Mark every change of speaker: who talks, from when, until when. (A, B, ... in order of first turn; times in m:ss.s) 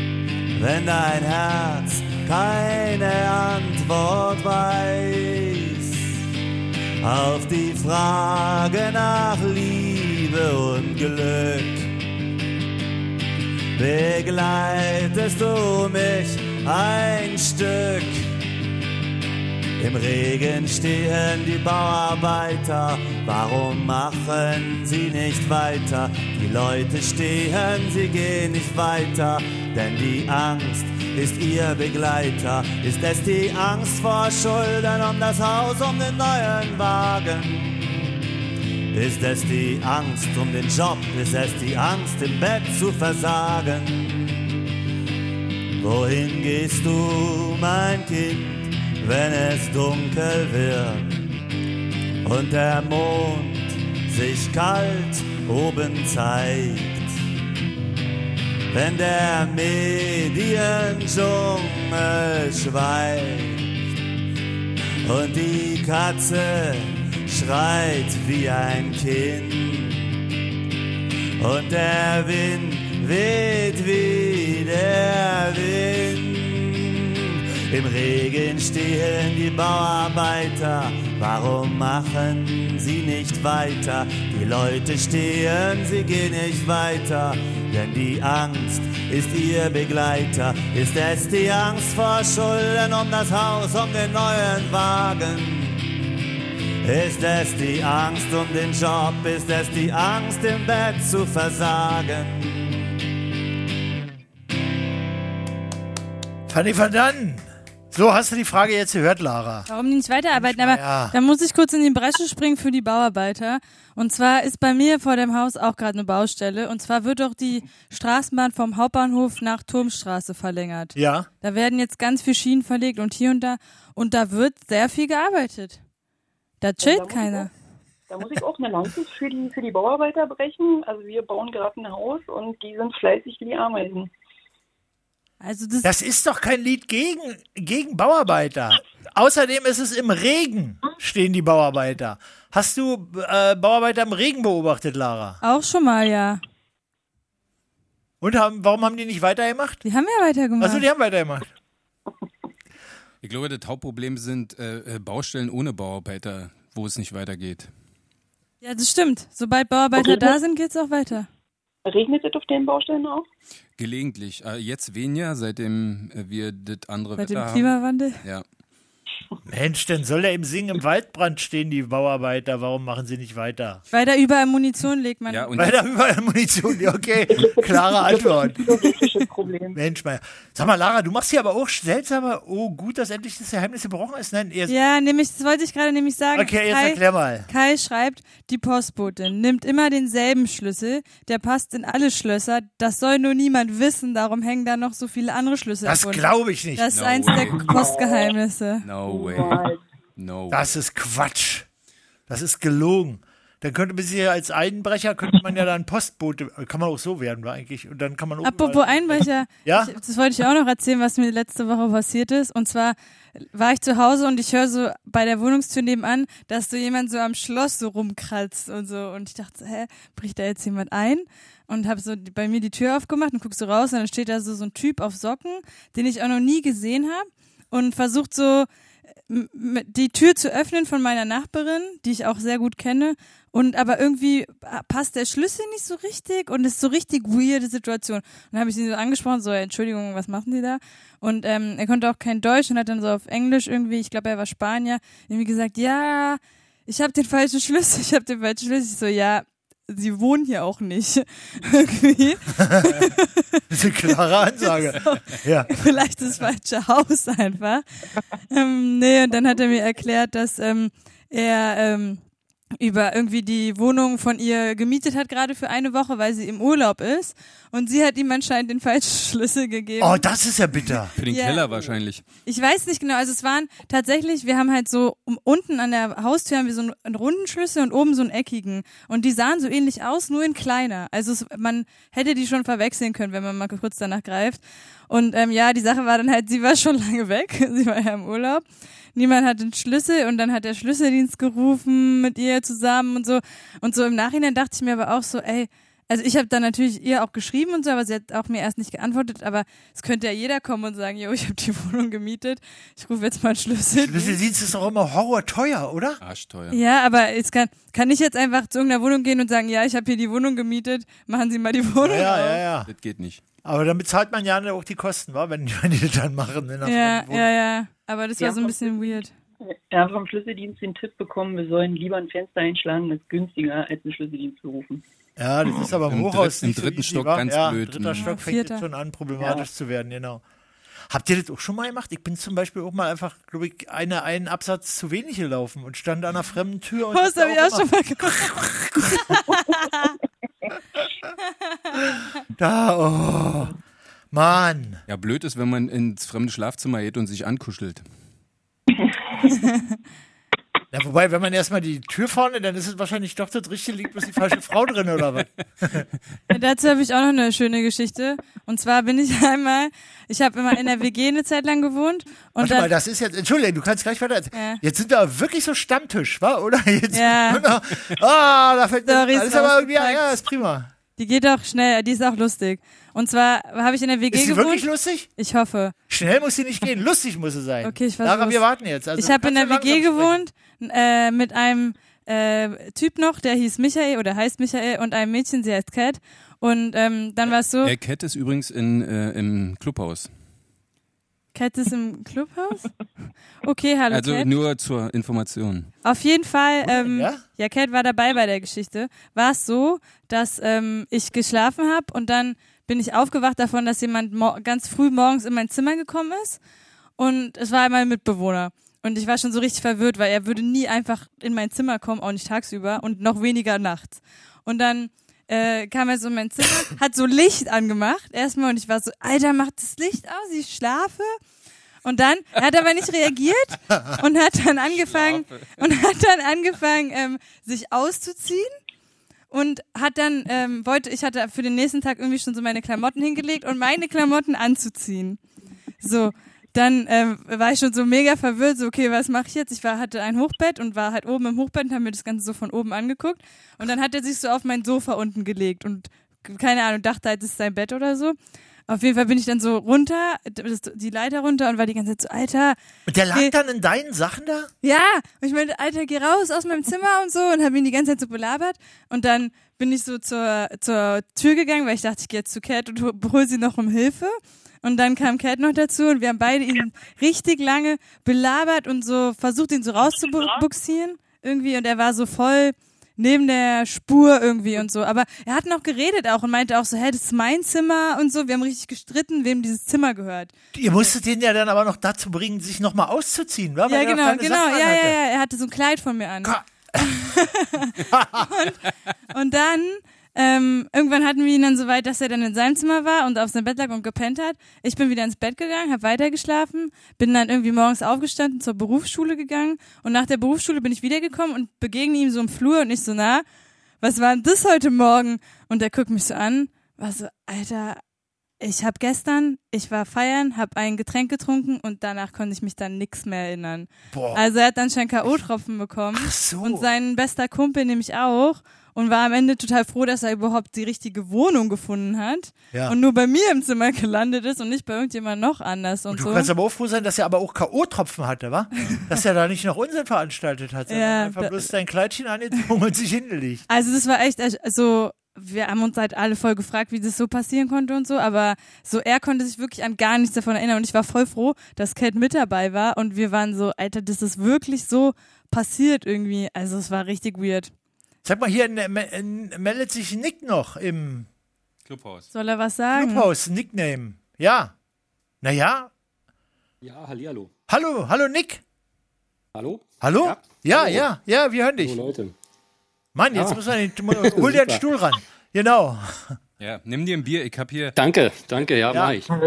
0:00.5-0:06.1 A
0:07.0-0:11.9 A
0:13.8-0:18.3 A
0:19.8-0:38.1 A
0:38.9-0:44.4 A
0:45.8-0:51.1 A
0:52.2-0:57.1 A
0:58.7-1:03.8 A
1:05.0-1:10.1 A
1:11.4-1:35.9 A
1:36.8-1:42.8 A
1:46.5-1:49.7 B
1:49.7-2:05.8 C
1:50.3-1:51.2 B
2:01.0-2:01.3 B
2:06.6-2:07.5 C
2:06.8-2:07.5 D
2:08.1-2:14.1 D
2:15.4-2:15.9 C
2:15.8-2:25.4 B
2:25.4-2:26.4 C
2:28.2-2:29.8 B
2:29.8-2:30.8 C
2:30.6-2:31.5 B
2:33.2-2:37.7 E
2:38.6-2:41.3 C
2:40.0-2:40.4 D
2:41.8-2:43.2 D
2:43.8-2:48.4 E
2:47.2-2:48.2 C
2:49.4-2:53.8 B
2:53.9-2:55.5 C
2:55.3-2:55.8 E
2:55.5-2:58.7 B
2:57.3-2:59.8 D
2:59.7-3:04.7 B
3:04.7-3:18.8 C
3:06.3-3:07.5 B
3:15.8-3:16.9 B
3:16.9-3:17.6 E
3:17.6-3:18.3 D
3:18.8-3:19.6 E
3:19.0-3:19.8 D
3:20.2-3:20.8 E
3:20.5-3:21.7 B
3:22.3-3:29.9 B
3:28.4-3:48.7 C
3:49.3-4:13.6 C
4:12.5-4:13.0 B
4:13.7-4:15.7 B
4:14.6-4:17.8 C
4:18.5-4:22.2 C
4:22.8-4:30.2 C
4:30.0-4:31.1 B
4:31.2-4:32.2 E
4:31.3-4:31.9 C
4:32.4-5:04.4 C
5:04.0-5:06.2 B
5:06.2-5:06.8 E
5:06.7-5:12.6 C
5:12.0-5:12.9 B
5:12.9-5:13.4 E
5:13.6-5:17.5 B
5:16.8-5:19.3 C
5:18.4-5:25.0 D
5:25.4-5:30.4 B
5:26.0-5:28.3 E
5:28.1-5:28.8 C
5:31.1-5:39.4 B
5:37.1-5:40.1 C
5:42.6-5:43.8 B
5:44.3-5:45.0 B
5:45.1-5:48.0 E
5:49.5-5:50.0 C
5:50.9-5:56.0 B
5:56.5-6:02.9 C
6:02.6-6:10.9 B
6:04.5-6:04.8 C
6:07.1-6:07.6 C
6:09.0-6:10.3 C
6:11.2-6:14.8 C
6:14.3-6:15.3 B
6:15.4-6:15.9 C
6:16.1-6:20.4 B
6:17.8-6:18.6 C
6:19.2-6:27.9 C
6:27.8-6:30.3 E
6:31.5-6:32.9 C
6:33.6-6:34.5 C
6:34.1-6:35.9 E
6:36.0-6:46.6 C
6:36.8-6:37.4 B
6:47.2-7:01.4 C
7:02.0-7:08.7 C
7:04.9-7:05.7 E
7:09.5-7:15.4 C
7:16.0-7:28.4 C
7:28.9-7:32.8 C
7:33.1-7:34.7 B
7:34.8-8:00.5 C
8:00.7-8:05.2 B
8:03.9-8:08.8 C
8:06.4-8:07.3 B
8:08.1-8:08.5 B
8:09.3-8:23.4 C
8:24.0-8:28.0 C
8:28.6-8:46.5 C
8:34.1-8:34.4 B
8:36.1-8:36.9 B
8:46.1-8:53.6 B
8:50.9-8:51.7 C
8:53.7-9:07.7 C
9:08.2-9:11.3 B
9:11.9-9:12.3 E
9:12.3-9:13.3 C
9:12.9-9:14.7 B
9:15.4-9:15.9 B
9:16.8-9:17.5 F
9:17.7-9:18.6 B
9:19.5-9:21.1 F
9:20.0-9:22.0 B
9:21.8-9:22.3 F
9:23.1-9:26.4 B
9:23.3-9:24.8 F
9:26.6-9:28.0 E
9:27.9-9:29.3 F